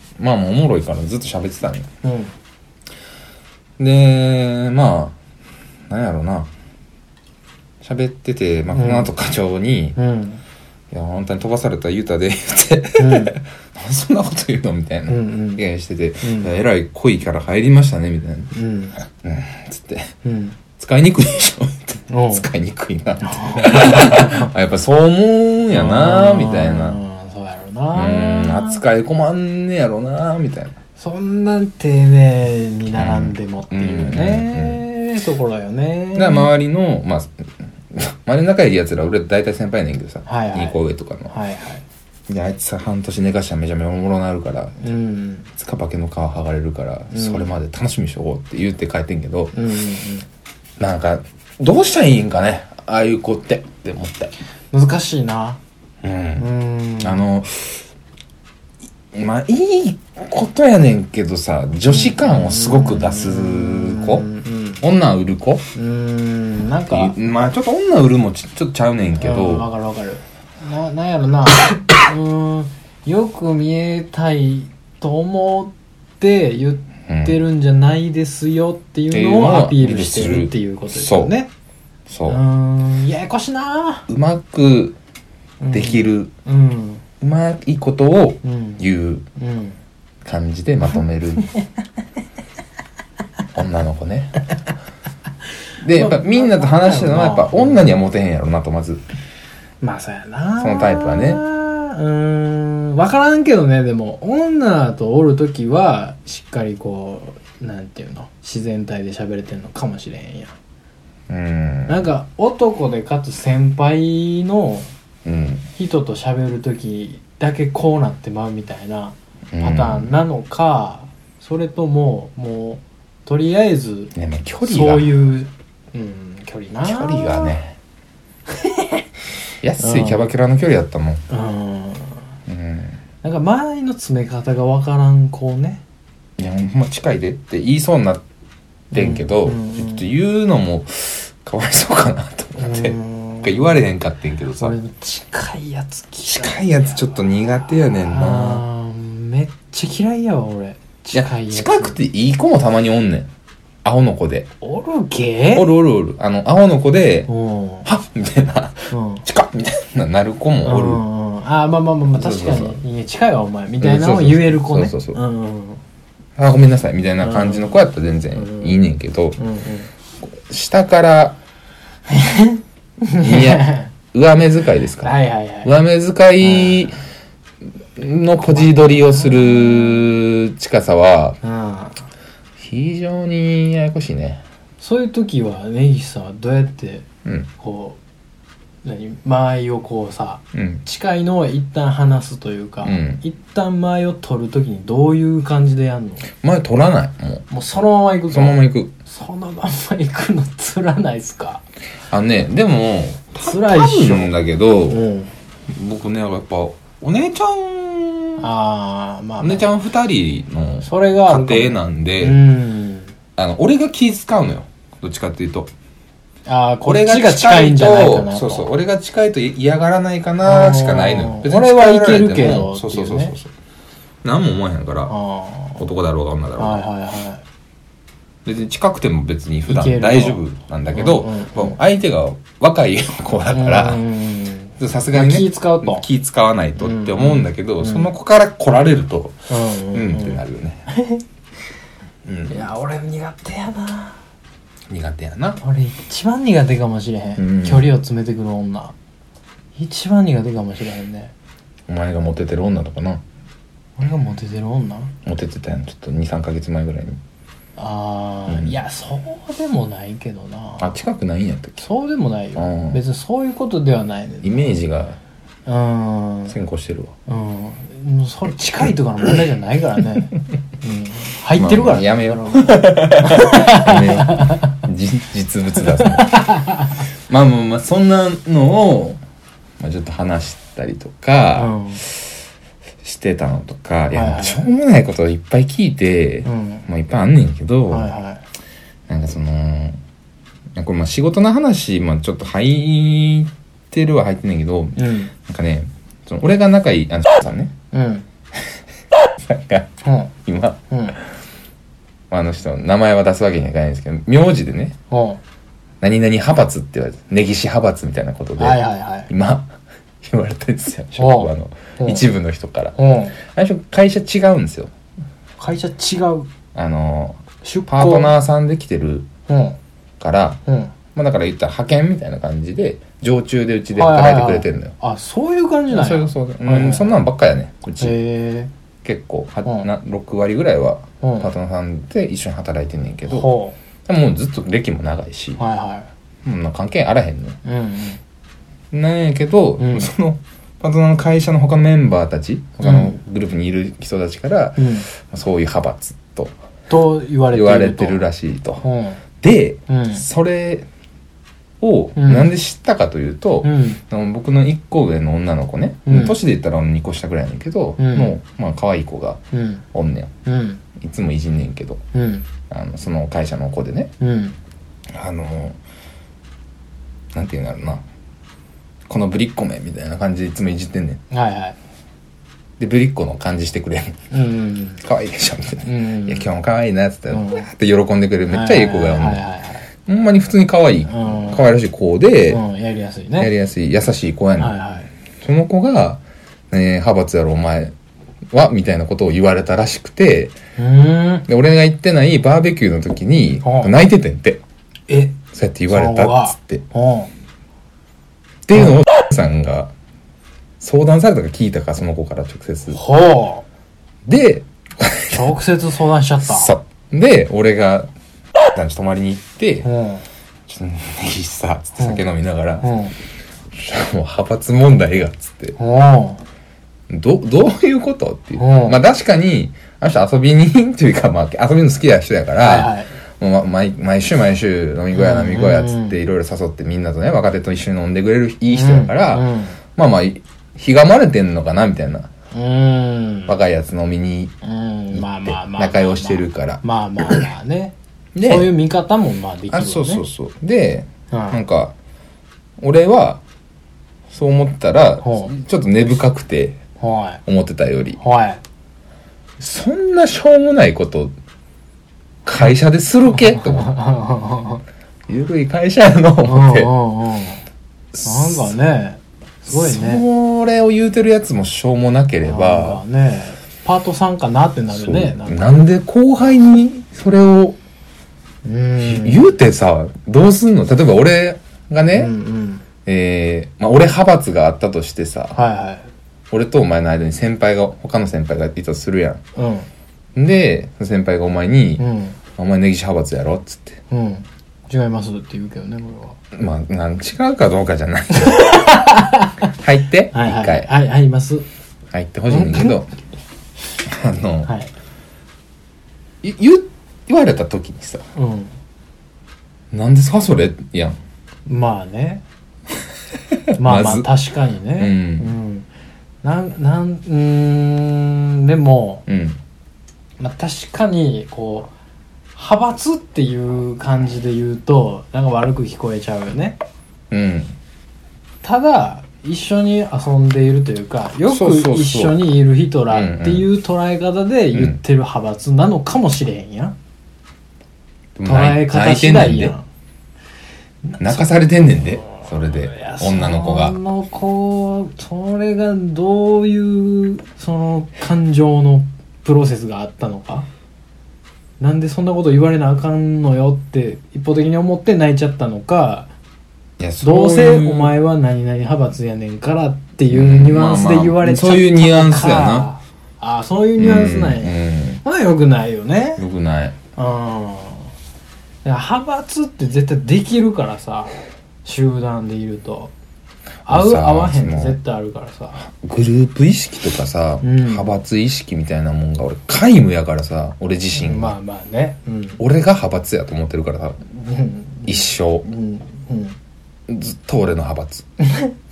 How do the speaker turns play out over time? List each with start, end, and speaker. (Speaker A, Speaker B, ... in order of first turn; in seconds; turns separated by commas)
Speaker A: 0.2-1.9, Speaker B: 2.0-2.3, Speaker A: 3.8-5.2, Speaker A: 5.9-6.5, Speaker A: 7.8-10.0, Speaker B: 8.7-9.1, Speaker B: 9.9-10.4, Speaker A: 10.9-20.1, Speaker B: 13.0-13.4, Speaker B: 15.1-15.6, Speaker B: 16.2-16.5, Speaker B: 18.5-18.9, Speaker B: 20.2-20.6, Speaker A: 20.8-27.0, Speaker B: 22.1-22.5, Speaker B: 23.2-24.5, Speaker B: 25.7-28.8, Speaker A: 27.9-30.8, Speaker B: 31.0-36.5, Speaker A: 32.9-34.8, Speaker A: 36.1-41.3, Speaker B: 40.2-40.8, Speaker B: 41.3-41.8, Speaker A: 42.3-44.8, Speaker B: 44.8-45.5, Speaker A: 45.5-49.5, Speaker B: 47.1-47.5, Speaker B: 49.5-50.2, Speaker A: 50.8-54.3, Speaker B: 54.7-55.6, Speaker A: 56.0-56.5, Speaker B: 56.4-57.2, Speaker A: 57.0-57.9, Speaker A: 59.1-64.2, Speaker B: 61.9-64.8, Speaker A: 64.8-65.7, Speaker B: 65.7-67.2, Speaker A: 66.9-69.7, Speaker B: 69.2-81.5, Speaker A: 77.1-77.4, Speaker A: 79.1-81.3, Speaker A: 82.1-82.4, Speaker B: 82.3-84.1, Speaker A: 84.1-85.0, Speaker B: 85.6-87.0, Speaker A: 85.7-86.3, Speaker A: 87.2-89.2, Speaker B: 88.4-88.8, Speaker B: 89.3-89.8, Speaker A: 90.2-91.5, Speaker A: 93.5-94.4, Speaker A: 95.8-99.0, Speaker B: 95.9-97.9, Speaker B: 99.8-110.5, Speaker A: 100.6-101.4, Speaker A: 111.3-112.0, Speaker B: 111.9-114.9, Speaker A: 115.2-115.7, Speaker B: 115.8-124.1, Speaker A: 119.5-120.1, Speaker A: 124.1-125.1, Speaker B: 124.6-127.5, Speaker A: 126.8-127.8, Speaker B: 128.6-129.0, Speaker A: 129.6-131.2, Speaker B: 129.8-130.3, Speaker B: 131.3-132.2, Speaker A: 132.5-133.0, Speaker B: 133.2-135.8, Speaker A: 136.4-138.2, Speaker A: 138.9-144.7, Speaker B: 138.9-140.1, Speaker B: 142.6-143.7, Speaker B: 144.6-152.0, Speaker A: 146.2-148.6, Speaker A: 151.1-153.3, Speaker A: 153.8-154.5, Speaker B: 154.6-155.7, Speaker A: 155.5-157.3, Speaker B: 157.3-157.9, Speaker A: 157.8-161.0, Speaker B: 158.9-159.2, Speaker B: 160.6-165.8, Speaker A: 162.1-162.8, Speaker A: 163.8-165.2, Speaker A: 166.3-169.4, Speaker B: 167.2-167.8, Speaker B: 168.3-168.8, Speaker B: 169.4-169.9, Speaker A: 170.2-171.4, Speaker B: 172.1-173.9, Speaker A: 173.2-177.0, Speaker B: 175.0-175.7, Speaker B: 176.4-176.9, Speaker A: 177.9-181.4, Speaker B: 178.5-180.0, Speaker B: 181.4-182.0, Speaker A: 182.6-184.4, Speaker B: 184.8-187.1, Speaker B: 187.6-188.0, Speaker B: 188.8-196.3, Speaker A: 190.5-190.8, Speaker A: 192.8-193.2, Speaker A: 196.3-197.4, Speaker B: 197.5-201.6, Speaker A: 198.3-198.9, Speaker A: 202.1-205.0, Speaker B: 203.4-204.3, Speaker B: 204.9-205.3, Speaker A: 205.7-208.5, Speaker B: 208.4-209.7, Speaker A: 209.4-212.4, Speaker B: 210.8-213.1, Speaker A: 213.3-215.7, Speaker B: 216.5-218.7, Speaker A: 216.8-223.5, Speaker B: 220.4-223.3, Speaker A: 224.2-225.1, Speaker B: 225.1-225.8, Speaker A: 225.8-226.8, Speaker B: 226.6-227.4, Speaker A: 228.4-234.0, Speaker B: 229.7-230.4, Speaker B: 230.9-231.8, Speaker B: 233.5-236.1, Speaker A: 234.8-240.8, Speaker B: 236.8-238.1, Speaker B: 239.5-241.2, Speaker A: 242.2-242.7, Speaker B: 242.5-244.2, Speaker A: 244.9-245.6, Speaker B: 245.6-248.9, Speaker A: 247.4-247.9, Speaker B: 249.8-251.3, Speaker A: 251.9-253.2, Speaker B: 254.0-255.1, Speaker A: 255.2-257.2, Speaker B: 257.8-260.9, Speaker A: 258.5-258.8, Speaker A: 260.8-261.8, Speaker B: 261.8-264.8, Speaker A: 262.6-263.0, Speaker A: 264.4-265.2, Speaker B: 265.6-266.6, Speaker A: 266.5-267.1, Speaker B: 267.3-274.8, Speaker A: 271.5-276.4, Speaker B: 275.8-277.0, Speaker A: 277.3-279.2, Speaker A: 279.8-282.3, Speaker B: 281.6-282.0, Speaker A: 283.0-288.1, Speaker B: 284.1-284.7, Speaker B: 286.4-286.8, Speaker B: 287.9-288.4, Speaker A: 289.1-290.0, Speaker A: 290.7-297.7, Speaker B: 294.9-295.3, Speaker B: 297.9-298.2, Speaker A: 299.4-299.9, Speaker B: 300.0-300.3, Speaker A: 300.4-300.8, Speaker B: 300.9-301.2, Speaker A: 302.3-304.9, Speaker B: 305.1-305.4, Speaker A: 306.0-314.9, Speaker B: 308.6-309.3, Speaker B: 311.1-312.2, Speaker B: 312.9-313.4, Speaker B: 315.6-316.5, Speaker A: 316.7-319.3, Speaker B: 317.6-318.3, Speaker B: 319.5-319.8, Speaker A: 320.2-320.6, Speaker B: 320.6-320.9, Speaker A: 321.1-324.9, Speaker B: 323.9-327.1, Speaker A: 325.9-328.2, Speaker B: 328.0-328.7, Speaker A: 329.0-333.5, Speaker B: 331.2-331.5, Speaker B: 333.3-333.7, Speaker A: 334.1-335.6, Speaker B: 335.6-336.1, Speaker A: 336.4-337.6, Speaker B: 337.6-338.2, Speaker A: 338.9-346.6, Speaker B: 339.8-340.1, Speaker B: 342.8-343.2, Speaker B: 344.8-345.1, Speaker B: 346.9-348.2, Speaker A: 347.5-348.8, Speaker B: 348.8-349.2, Speaker A: 349.4-350.9, Speaker B: 349.9-350.2, Speaker A: 351.8-359.4, Speaker B: 352.1-352.5, Speaker B: 353.6-354.0, Speaker B: 356.1-356.4, Speaker B: 358.0-358.4, Speaker B: 359.5-359.8, Speaker A: 359.9-360.3, Speaker B: 360.4-360.8, Speaker A: 361.0-362.0, Speaker B: 362.1-362.4, Speaker A: 362.7-364.1, Speaker B: 364.2-364.6, Speaker A: 365.1-365.8, Speaker A: 367.3-368.0, Speaker A: 369.1-371.2, Speaker B: 371.3-371.8, Speaker A: 372.8-374.2, Speaker B: 374.3-375.0, Speaker A: 375.0-379.4, Speaker B: 375.8-376.5, Speaker B: 377.3-377.6, Speaker B: 378.5-379.9, Speaker A: 380.0-382.6, Speaker B: 381.1-381.6, Speaker B: 382.5-383.5, Speaker A: 383.4-384.7, Speaker B: 384.6-385.1, Speaker A: 385.4-387.9, Speaker A: 388.5-390.5, Speaker B: 390.8-391.5, Speaker A: 391.5-394.6, Speaker B: 393.6-393.9, Speaker B: 395.1-397.3, Speaker A: 395.5-396.8, Speaker A: 398.6-399.9, Speaker A: 400.8-403.0, Speaker B: 402.9-403.6, Speaker A: 404.2-405.5, Speaker B: 405.3-406.7, Speaker A: 406.4-408.1, Speaker A: 408.7-409.9, Speaker B: 409.8-410.2, Speaker A: 410.7-412.9, Speaker B: 412.0-412.2, Speaker B: 412.8-413.1, Speaker A: 413.7-415.8, Speaker B: 415.8-416.4, Speaker A: 417.1-432.3, Speaker B: 418.6-419.0, Speaker B: 422.6-423.1, Speaker B: 425.1-426.2, Speaker B: 428.7-429.8, Speaker B: 432.5-433.6, Speaker A: 433.5-434.5, Speaker B: 434.6-440.2, Speaker A: 435.1-437.4, Speaker A: 438.3-438.7, Speaker A: 439.7-441.9, Speaker B: 441.3-441.6, Speaker A: 442.8-443.4, Speaker A: 444.3-446.8, Speaker B: 445.2-445.5, Speaker B: 447.0-447.4, Speaker A: 447.4-448.2, Speaker B: 448.2-448.6, Speaker A: 449.6-451.3, Speaker A: 452.4-453.9, Speaker B: 453.4-454.8, Speaker A: 455.3-456.9, Speaker B: 456.4-457.6, Speaker A: 458.1-458.7, Speaker B: 458.2-460.2, Speaker A: 459.7-463.0, Speaker B: 462.4-465.8, Speaker A: 464.9-467.8, Speaker B: 468.6-469.5, Speaker A: 469.0-472.3, Speaker B: 472.1-472.8, Speaker A: 473.1-475.6, Speaker B: 475.5-476.1, Speaker A: 476.5-479.4, Speaker B: 479.5-479.9, Speaker A: 480.3-482.0, Speaker B: 482.0-482.4, Speaker A: 482.6-484.0, Speaker B: 484.1-486.4, Speaker A: 486.5-488.9, Speaker B: 488.3-489.7, Speaker A: 489.7-490.9, Speaker B: 490.3-491.6, Speaker A: 492.1-493.1, Speaker B: 492.5-493.0, Speaker A: 494.0-494.7, Speaker B: 494.6-494.9, Speaker A: 496.4-498.2, Speaker B: 498.3-498.7, Speaker A: 499.9-501.2, Speaker B: 501.6-502.4, Speaker A: 503.5-504.3, Speaker B: 503.8-505.9, Speaker A: 505.0-505.5, Speaker B: 506.4-509.2, Speaker A: 509.3-509.6, Speaker B: 510.4-511.9, Speaker B: 512.5-516.8, Speaker A: 517.3-517.7, Speaker B: 518.6-526.9, Speaker A: 521.5-522.4, Speaker A: 523.1-523.7, Speaker A: 524.7-525.0, Speaker A: 528.4-529.7, Speaker B: 528.5-529.8, Speaker B: 531.0-531.5, Speaker A: 531.2-534.0, Speaker B: 532.2-540.7, Speaker B: 541.8-546.3, Speaker A: 547.0-548.1, Speaker B: 547.2-556.4, Speaker A: 550.3-552.9, Speaker A: 554.0-555.2, Speaker A: 556.4-557.0, Speaker B: 557.1-558.1, Speaker B: 558.8-563.1, Speaker A: 563.8-565.0, Speaker B: 563.9-565.8, Speaker A: 565.8-571.5, Speaker B: 567.6-568.1, Speaker B: 571.1-572.6, Speaker A: 572.6-574.2, Speaker B: 574.3-576.6, Speaker A: 575.0-575.6, Speaker A: 577.1-578.2, Speaker B: 578.4-578.7